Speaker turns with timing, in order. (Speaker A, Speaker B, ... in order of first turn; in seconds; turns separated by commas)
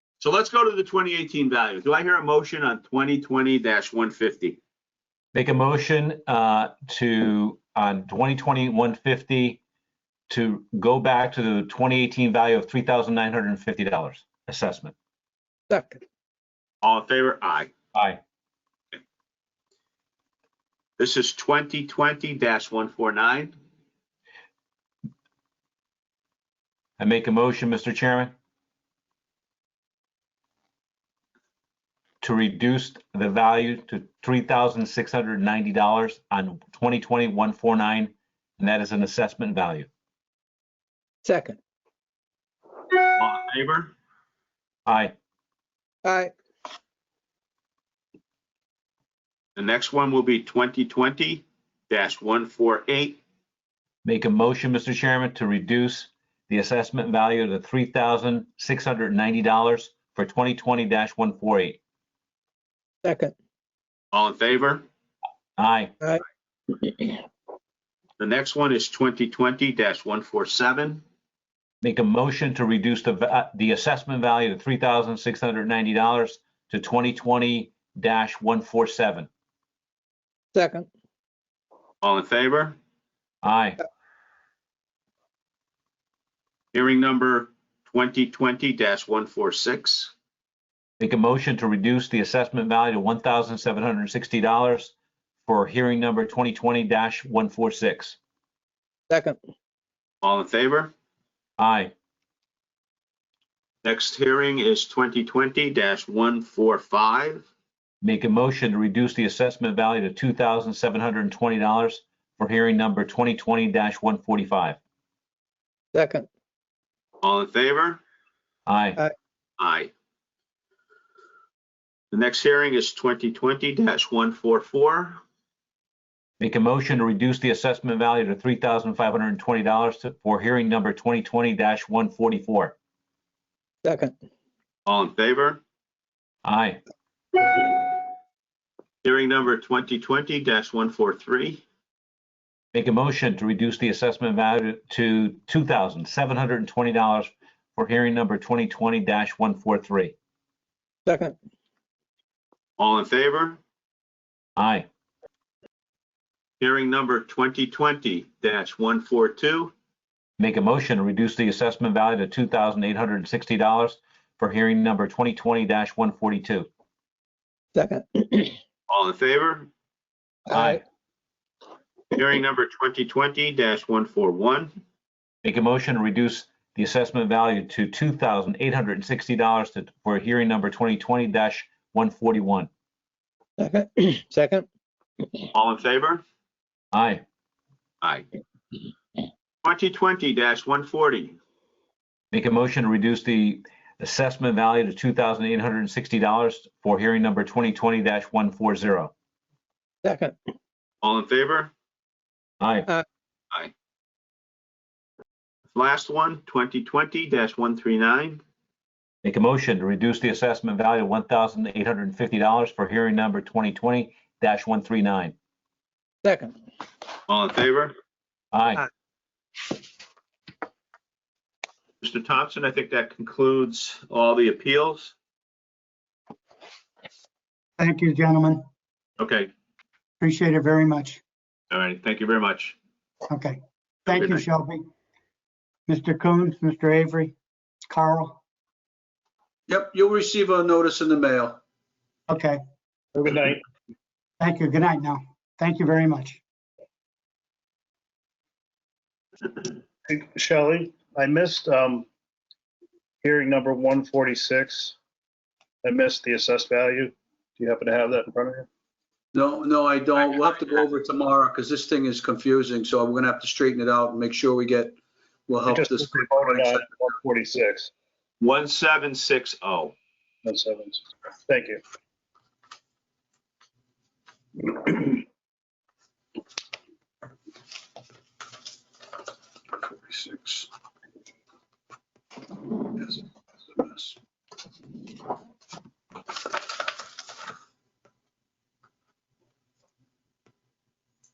Speaker A: 0.2-4.6, Speaker B: 5.3-9.6, Speaker B: 10.3-14.9, Speaker C: 15.7-16.0, Speaker A: 16.8-17.7, Speaker B: 17.9-18.2, Speaker A: 21.0-23.6, Speaker B: 27.0-28.3, Speaker B: 32.2-39.9, Speaker C: 41.2-41.6, Speaker A: 43.1-43.9, Speaker B: 44.9-45.1, Speaker C: 46.0-46.3, Speaker A: 49.6-53.2, Speaker B: 54.0-61.8, Speaker C: 63.0-63.3, Speaker A: 64.1-64.8, Speaker B: 65.6-66.0, Speaker A: 68.2-71.0, Speaker B: 71.8-79.3, Speaker C: 80.5-80.9, Speaker A: 82.0-82.8, Speaker B: 83.4-83.8, Speaker A: 86.7-90.1, Speaker B: 91.0-94.9, Speaker B: 95.5-98.2, Speaker C: 99.1-99.4, Speaker A: 100.2-100.9, Speaker B: 101.6-101.9, Speaker A: 103.8-107.5, Speaker B: 108.0-114.8, Speaker C: 115.9-116.3, Speaker A: 117.2-118.0, Speaker B: 118.7-119.0, Speaker A: 119.6-119.9, Speaker A: 122.1-125.2, Speaker B: 126.4-132.7, Speaker C: 133.8-134.1, Speaker A: 134.9-135.6, Speaker B: 136.4-136.8, Speaker A: 139.0-141.6, Speaker B: 142.7-150.2, Speaker C: 151.1-151.3, Speaker A: 152.8-153.6, Speaker B: 154.6-154.9, Speaker A: 156.6-159.7, Speaker B: 160.4-166.7, Speaker C: 167.8-168.6, Speaker A: 168.9-169.7, Speaker B: 170.5-170.8, Speaker A: 172.1-174.8, Speaker B: 175.4-182.7, Speaker C: 183.6-184.7, Speaker A: 185.5-186.2, Speaker B: 186.9-187.2, Speaker A: 189.6-191.4, Speaker B: 192.3-199.1, Speaker C: 200.0-200.3, Speaker A: 201.0-201.7, Speaker B: 202.6-202.9, Speaker A: 205.7-208.4, Speaker B: 209.2-215.3, Speaker C: 216.2-216.5, Speaker A: 217.3-217.9, Speaker B: 218.5-218.8, Speaker A: 222.0-225.1, Speaker D: 227.8-228.7, Speaker A: 229.2-229.5, Speaker D: 230.2-231.2, Speaker A: 231.7-232.8, Speaker D: 233.3-234.9, Speaker A: 234.1-234.4, Speaker D: 235.9-237.3, Speaker D: 237.9-238.4, Speaker E: 239.7-241.6, Speaker D: 242.3-242.6, Speaker F: 243.2-243.6, Speaker D: 244.4-246.4, Speaker F: 250.1-252.1, Speaker F: 253.2-255.0, Speaker F: 255.8-258.7, Speaker E: 259.3-266.9, Speaker F: 265.7-267.9, Speaker A: 268.4-269.9, Speaker F: 270.4-271.8, Speaker F: 274.7-275.1, Speaker E: 279.9-280.7, Speaker E: 283.8-284.1